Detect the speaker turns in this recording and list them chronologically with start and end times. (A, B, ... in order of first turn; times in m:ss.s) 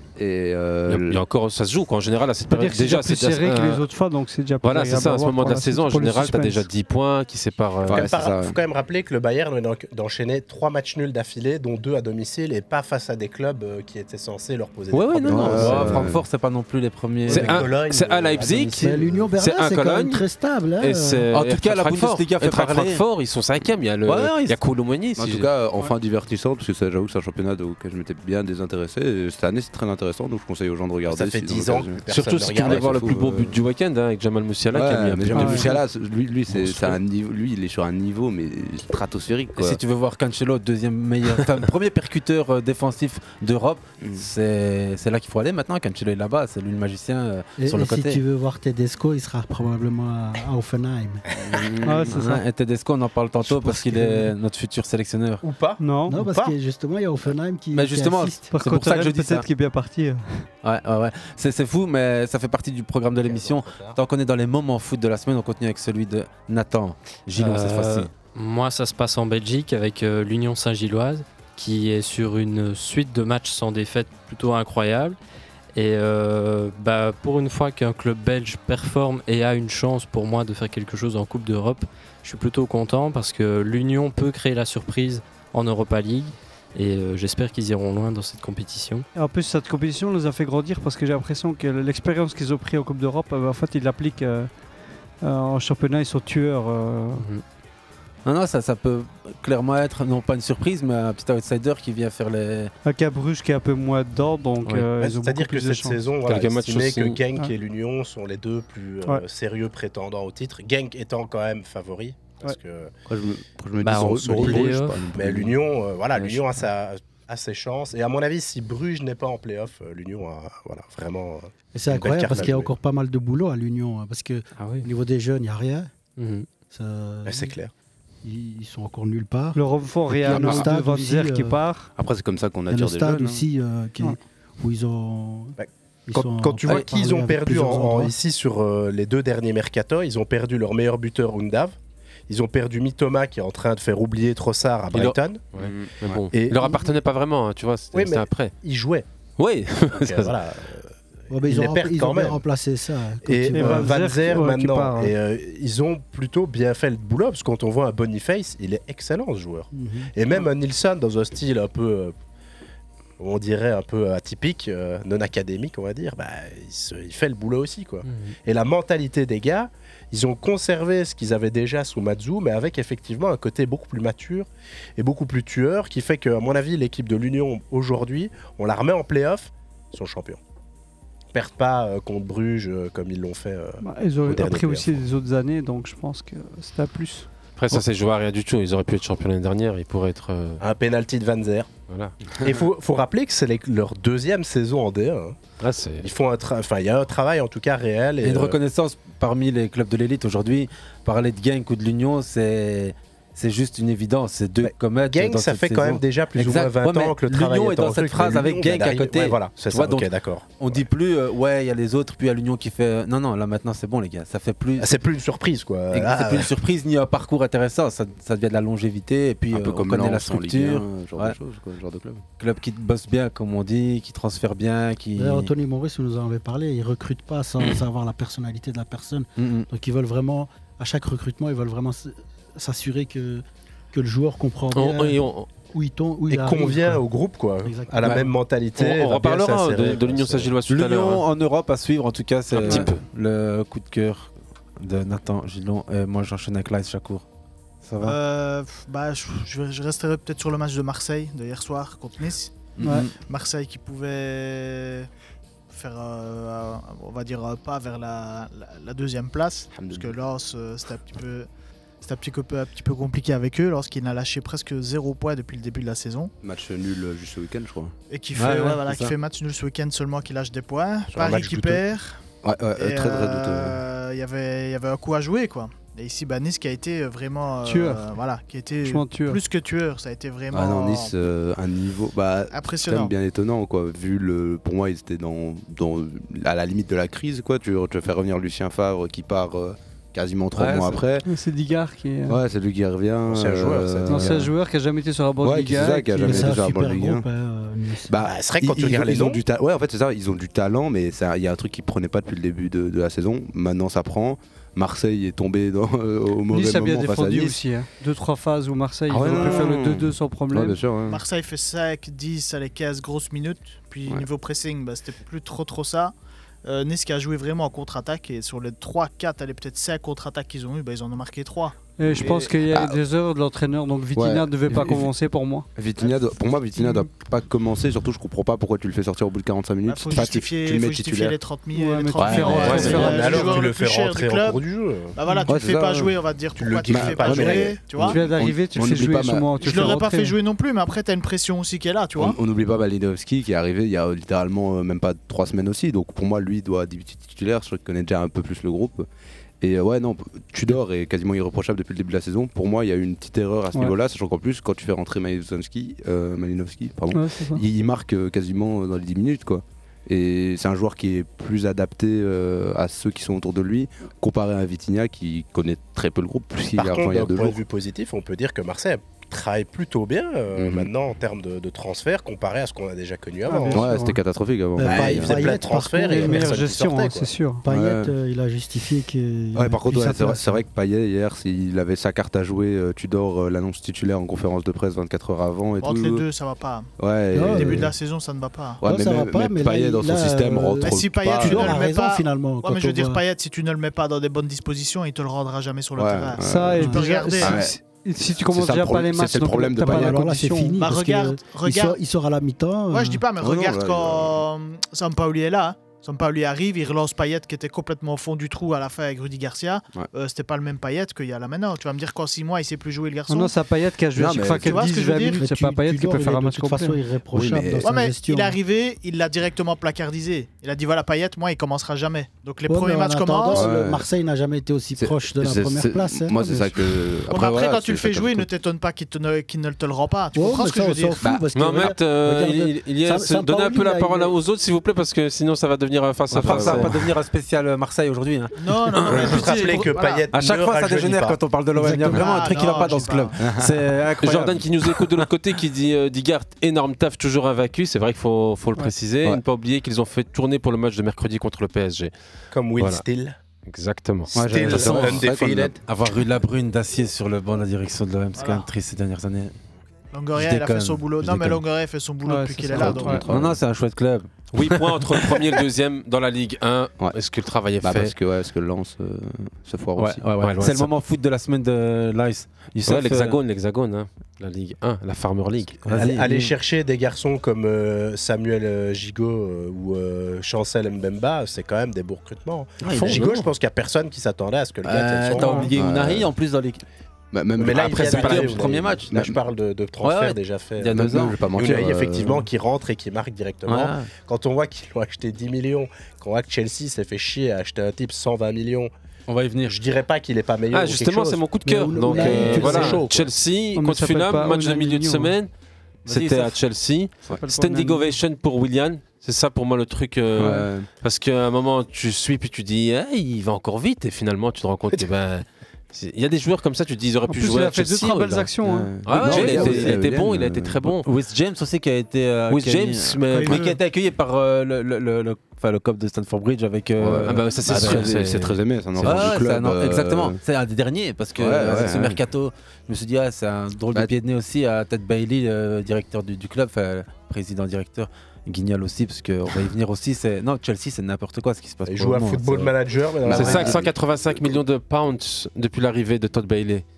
0:00.2-0:01.2 A
0:00.9-0:03.8 B
0:02.5-0:06.7 C
0:04.6-0:08.1 B
0:07.8-0:08.6 A
0:07.9-0:16.1 D
0:14.9-0:17.7 E
0:15.3-0:16.2 A
0:17.2-0:19.3 D
0:17.3-0:20.2 B
0:18.7-0:21.2 F
0:20.8-0:25.5 B
0:21.3-0:23.0 E
0:24.0-0:24.6 E
0:25.2-0:32.0 A
0:31.1-0:33.0 D
0:32.1-0:35.6 B
0:32.5-0:33.6 A
0:34.7-0:39.8 A
0:35.3-0:35.7 C
0:39.6-0:48.2 E
0:47.6-0:51.2 F
0:51.4-0:52.2 A
0:51.8-0:52.4 C
0:52.1-0:55.4 E
0:53.4-0:54.3 F
0:55.4-0:56.6 D
0:55.8-0:56.2 C
0:56.1-0:58.5 F
0:57.7-0:59.4 E
0:58.5-1:00.5 C
1:00.6-1:08.1 E
1:03.2-1:04.0 D
1:07.4-1:15.2 G
1:15.7-1:29.1 G
1:29.1-1:34.5 C
1:35.2-1:37.3 C
1:37.2-1:37.4 G
1:38.2-1:42.7 E
1:42.8-1:46.0 C
1:45.0-1:52.9 D
1:46.2-1:47.2 B
1:53.1-1:55.6 A
1:53.8-1:55.0 G
1:53.9-2:02.7 D
2:01.7-2:05.9 F
2:04.6-2:04.8 G
2:06.2-2:06.5 G
2:06.7-2:07.6 F
2:07.2-2:07.7 D
2:08.2-2:11.6 F
2:09.5-2:11.9 C
2:10.3-2:10.7 A
2:12.0-2:13.4 A
2:12.7-2:15.6 F
2:15.6-2:21.7 D
2:16.1-2:18.1 F
2:22.3-2:25.4 D
2:24.9-2:28.5 B
2:25.6-2:26.2 A
2:26.1-2:26.8 D
2:27.9-2:29.0 D
2:29.4-2:30.4 B
2:29.9-2:32.4 D
2:31.3-2:34.0 F
2:33.2-2:42.1 D
2:33.5-2:35.1 C
2:39.7-2:40.1 F
2:43.2-3:00.4 D
2:48.0-2:48.3 G
3:01.3-3:05.0 D
3:03.8-3:07.3 C
3:07.6-3:10.6 B
3:10.6-3:11.7 D
3:11.9-3:12.2 B
3:12.4-3:15.4 D
3:15.6-3:16.0 B
3:16.0-3:18.6 D
3:18.2-3:35.0 E
3:24.6-3:30.9 D
3:34.8-3:36.5 D
3:35.9-3:41.4 E
3:39.5-3:42.2 A
3:42.4-3:45.5 E
3:45.2-3:57.0 F
3:49.4-3:49.7 E
3:54.7-3:55.5 B
3:56.3-4:00.5 D
3:57.6-3:58.3 F
3:58.8-4:01.2 B
4:00.7-4:07.2 E
4:02.5-4:03.0 B
4:07.8-4:08.2 E
4:08.0-4:12.6 H
4:12.8-4:13.1 E
4:12.8-4:13.1 C
4:13.2-4:15.1 H
4:15.7-4:21.5 H
4:19.7-4:20.1 A
4:22.0-4:26.3 H
4:26.4-4:27.9 A
4:28.1-4:32.2 H
4:28.4-4:29.1 E
4:31.2-4:31.8 D
4:32.4-4:33.8 A
4:32.8-4:41.2 H
4:37.6-4:38.0 C
4:38.8-4:39.4 C
4:40.5-4:51.3 A
4:42.5-4:43.1 H
4:50.5-4:51.0 E
4:51.2-4:52.4 C
4:52.3-4:54.5 A
4:53.3-4:54.5 D
4:54.1-4:56.5 C
4:55.4-4:57.2 A
4:56.2-4:58.2 F
4:58.1-5:07.6 A
4:58.2-4:59.4 D
5:06.5-5:10.8 C
5:09.1-5:11.2 A
5:11.0-5:21.8 H
5:22.0-5:25.7 C
5:22.0-5:23.0 A
5:24.1-5:25.1 A
5:25.7-5:31.4 A
5:29.8-5:34.6 H
5:31.7-5:33.6 C
5:32.2-5:33.1 A
5:32.6-5:33.0 B
5:32.9-5:35.2 D
5:35.1-5:38.2 H
5:35.5-5:36.2 A
5:36.6-5:37.8 D
5:36.7-5:40.0 A
5:38.0-5:40.4 C
5:39.6-5:42.4 H
5:42.2-5:49.1 A
5:49.6-6:07.6 A
5:57.1-5:57.6 C
6:06.8-6:13.9 D
6:10.5-6:10.9 A
6:13.4-6:14.2 C
6:13.7-6:15.6 A
6:14.8-6:16.6 F
6:14.8-6:17.3 D
6:16.0-6:17.6 C
6:17.6-6:20.6 F
6:17.6-6:18.1 A
6:19.5-6:26.2 A
6:25.8-6:26.9 H
6:27.0-6:27.9 A
6:27.3-6:27.9 F
6:27.5-6:28.8 H
6:28.8-6:33.2 F
6:28.8-6:31.8 A
6:30.8-6:37.6 H
6:36.0-6:40.2 A
6:36.4-6:40.8 C
6:39.8-6:43.2 F
6:40.8-6:42.0 H
6:42.9-6:53.6 H
6:43.4-6:44.4 A
6:53.3-6:57.0 C
6:54.1-6:54.8 A
6:54.6-6:55.4 H
6:55.0-6:58.6 F
6:57.3-6:57.9 A
6:57.8-7:03.7 H
7:02.6-7:06.7 F
7:03.5-7:04.0 A
7:05.0-7:08.5 A
7:07.3-7:11.3 H
7:10.3-7:14.4 F
7:11.5-7:17.0 B
7:16.3-7:17.1 A
7:16.3-7:24.6 E
7:18.6-7:20.0 H
7:19.0-7:21.4 D
7:21.7-7:23.0 F
7:22.1-7:23.4 H
7:23.4-7:24.0 A
7:24.2-7:32.1 B
7:32.5-7:33.4 D
7:32.8-7:33.0 B
7:33.6-7:34.3 B
7:34.3-7:35.8 D
7:34.3-7:35.8 A
7:34.6-7:35.2 E
7:35.8-7:39.6 E
7:38.4-7:38.7 H
7:40.1-7:43.2 H
7:40.3-7:41.6 E
7:42.2-7:43.2 C
7:42.7-7:43.6 A
7:43.3-7:44.5 E
7:44.5-7:48.1 B
7:47.8-7:50.2 A
7:50.0-7:53.4 E
7:50.4-7:50.9 B
7:52.8-7:55.9 B
7:55.8-7:56.5 E
7:55.9-8:05.7 D
8:02.8-8:03.5 E
8:02.9-8:03.3 B
8:04.8-8:06.8 E
8:05.4-8:05.7 C
8:05.7-8:06.3 A
8:07.3-8:09.4 A
8:07.6-8:18.9 D
8:07.7-8:09.1 E
8:10.0-8:11.4 E
8:10.9-8:12.5 A
8:13.6-8:14.1 E
8:19.3-8:19.8 E
8:19.6-8:21.5 D
8:20.7-8:25.5 B
8:21.6-8:23.1 F
8:22.1-8:23.2 D
8:23.7-8:25.4 C
8:26.0-8:26.5 E
8:26.0-8:38.5 B
8:27.3-8:28.1 C
8:30.3-8:30.9 A
8:37.3-8:39.5 C
8:38.6-8:40.9 A
8:39.0-8:41.0 B
8:39.1-8:40.0 E
8:41.0-8:48.1 E
8:42.5-8:43.7 B
8:43.3-8:43.8 C
8:47.0-8:50.4 A
8:47.2-8:49.4 B
8:49.0-9:02.7 E
8:51.4-8:52.2 A
9:01.9-9:03.9 D
9:03.2-9:04.5 A
9:03.3-9:06.8 B